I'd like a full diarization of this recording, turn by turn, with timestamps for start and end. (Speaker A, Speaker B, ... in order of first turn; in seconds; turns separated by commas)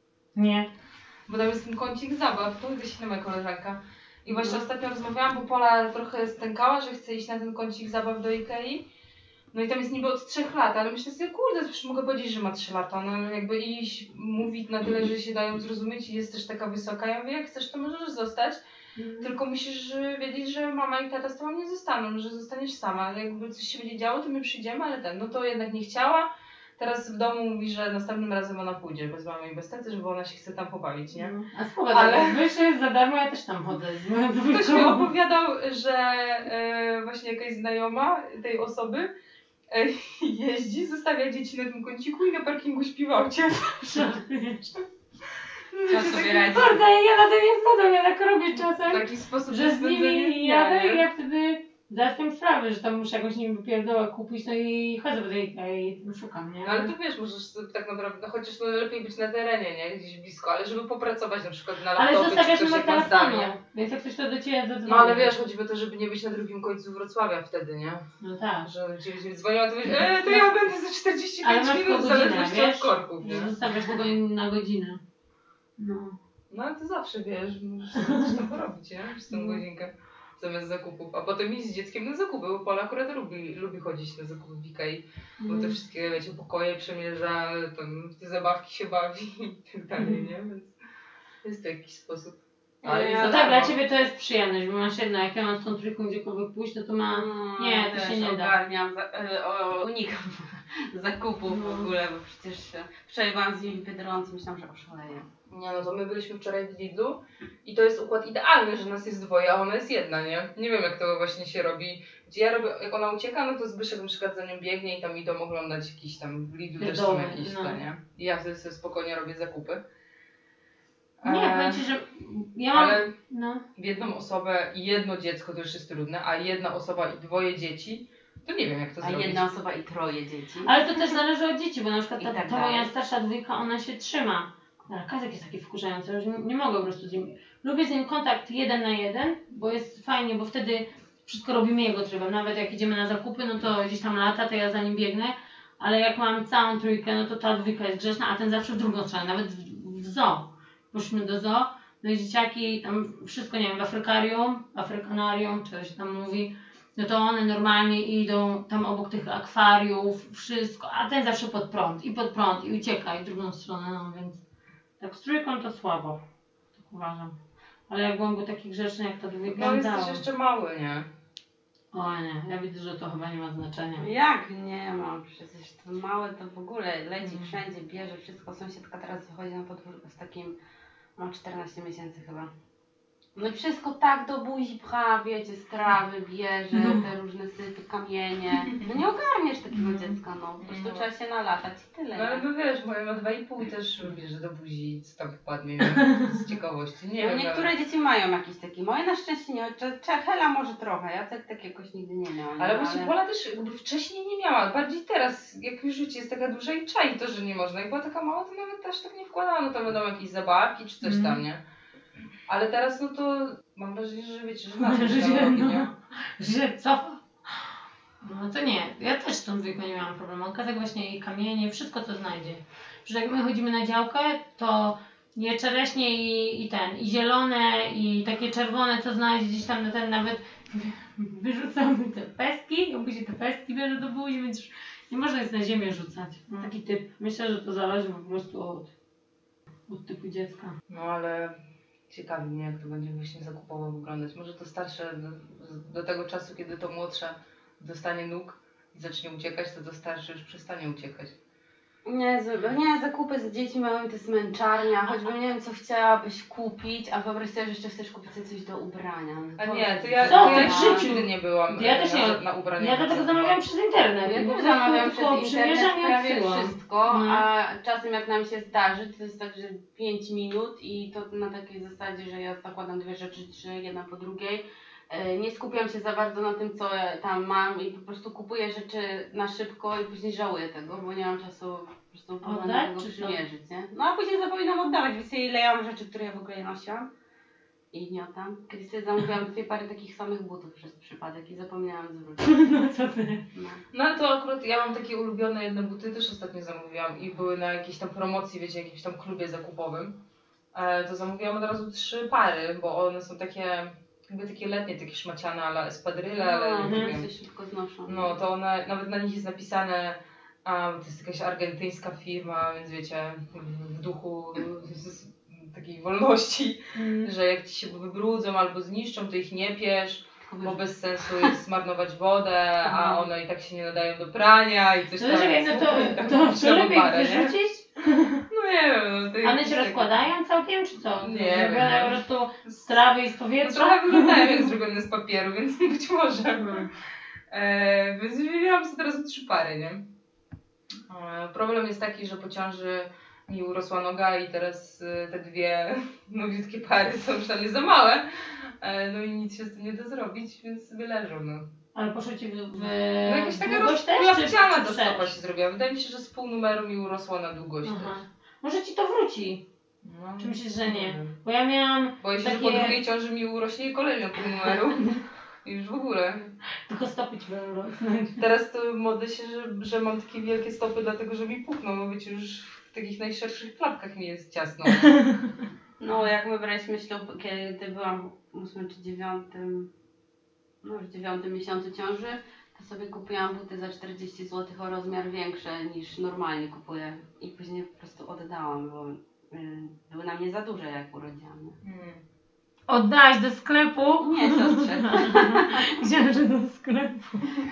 Speaker A: 0.3-0.7, Speaker B: 1.3-8.8, Speaker A: 4.3-4.6, Speaker B: 9.5-18.6, Speaker A: 19.0-19.3, Speaker B: 19.2-31.3, Speaker A: 31.1-35.1, Speaker B: 31.9-32.4, Speaker B: 34.5-39.1, Speaker B: 39.7-44.1, Speaker A: 43.8-44.8, Speaker B: 45.7-46.5, Speaker C: 45.9-46.8, Speaker A: 46.0-56.9, Speaker B: 48.8-51.0, Speaker B: 56.6-63.5, Speaker A: 61.9-65.3, Speaker B: 64.8-68.0, Speaker A: 68.2-68.7, Speaker B: 68.6-73.5, Speaker A: 69.9-70.5, Speaker A: 71.4-75.0, Speaker A: 75.8-76.2, Speaker B: 76.5-90.7, Speaker A: 78.0-78.3, Speaker A: 79.3-79.6, Speaker A: 85.4-85.8, Speaker A: 90.0-90.3, Speaker B: 91.4-93.7, Speaker A: 92.8-98.5, Speaker C: 92.9-93.4, Speaker C: 97.1-105.2, Speaker A: 101.5-101.9, Speaker B: 105.5-119.8, Speaker A: 116.8-117.8, Speaker B: 121.2-121.8, Speaker A: 121.2-123.6, Speaker B: 122.7-123.1, Speaker B: 123.8-129.5, Speaker C: 129.0-130.8, Speaker A: 130.6-164.4, Speaker C: 132.2-132.9, Speaker A: 165.0-166.2, Speaker A: 166.8-167.3, Speaker A: 167.9-170.2, Speaker B: 169.5-171.1, Speaker A: 171.9-174.1, Speaker C: 174.0-180.5, Speaker C: 181.2-182.5, Speaker C: 183.3-192.4, Speaker A: 186.7-187.0, Speaker B: 190.6-191.1, Speaker B: 192.1-197.7, Speaker C: 197.2-203.1, Speaker B: 202.6-211.6, Speaker A: 211.0-211.4, Speaker B: 212.5-215.9, Speaker A: 214.8-217.7, Speaker A: 218.2-238.9, Speaker A: 239.9-240.7, Speaker B: 240.9-241.5, Speaker B: 242.1-251.3, Speaker C: 252.0-261.1, Speaker B: 259.6-263.6, Speaker A: 260.2-267.4, Speaker C: 264.2-287.1, Speaker A: 282.4-283.4, Speaker C: 287.9-292.5, Speaker A: 292.4-293.4, Speaker C: 293.5-293.8, Speaker B: 293.9-300.2, Speaker B: 300.7-307.3, Speaker C: 306.4-308.3, Speaker A: 306.8-307.1, Speaker B: 308.1-327.5, Speaker A: 316.9-317.3, Speaker C: 320.4-321.5, Speaker A: 325.2-328.4, Speaker B: 328.5-330.2, Speaker A: 329.4-334.7, Speaker B: 331.2-333.0, Speaker B: 333.6-336.9, Speaker A: 336.6-336.9, Speaker B: 337.5-340.1, Speaker B: 341.1-351.6, Speaker A: 351.9-355.3, Speaker B: 353.2-358.2, Speaker A: 357.8-359.6, Speaker B: 360.0-361.3, Speaker A: 360.4-363.0, Speaker B: 362.2-366.5, Speaker A: 366.9-368.4, Speaker B: 368.4-375.2, Speaker C: 376.0-379.9, Speaker C: 380.8-391.8, Speaker B: 391.8-392.2, Speaker A: 392.9-397.6, Speaker C: 394.2-395.8